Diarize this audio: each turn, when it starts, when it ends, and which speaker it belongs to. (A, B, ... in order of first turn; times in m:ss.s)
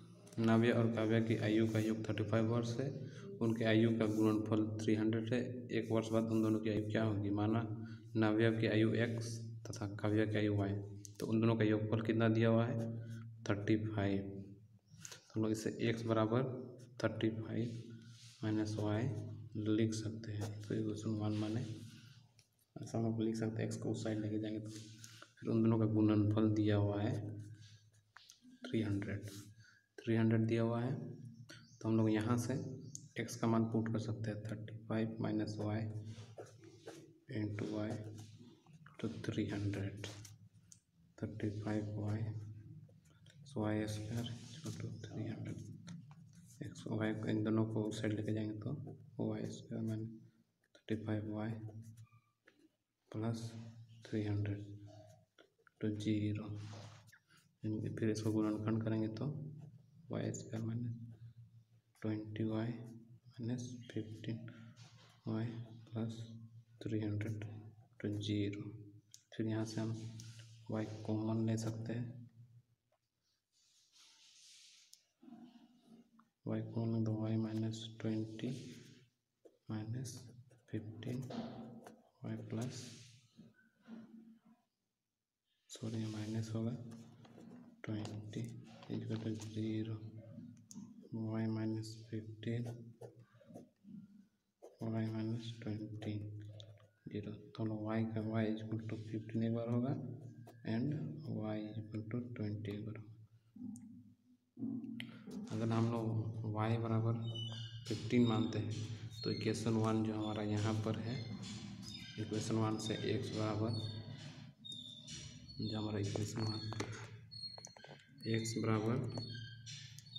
0:00.4-0:12.9 A
0:13.4-0:14.4 A
0:15.3-0:17.8 A
0:18.4-0:21.7 A
0:22.7-0:24.8 A
0:25.4-0:27.2 A
0:28.6-0:29.3 A
0:30.0-0:31.2 A
0:31.8-0:35.9 A
0:37.3-0:38.0 A
0:39.0-0:40.1 A
0:41.2-0:42.3 A
0:43.4-0:45.6 A
0:46.6-0:50.2 A
0:50.7-0:51.6 A
0:53.1-0:54.8 A
0:55.8-0:56.6 A
0:57.6-0:59.5 A
1:00.1-1:01.0 A
1:02.0-1:04.5 A
1:05.2-1:08.8 A
1:09.3-1:10.1 A
1:10.7-1:12.2 A
1:16.4-1:18.7 A
1:19.7-1:21.4 A
1:22.2-1:23.0 A
1:25.7-1:26.8 A
1:27.8-1:30.0 A
1:31.1-1:32.8 A
1:34.8-1:36.4 A
1:37.0-1:40.0 A
1:40.6-1:43.1 A
1:45.4-1:47.2 A
1:47.8-1:51.2 A
1:52.1-1:53.9 A
1:55.6-1:57.0 A
1:58.2-1:59.1 A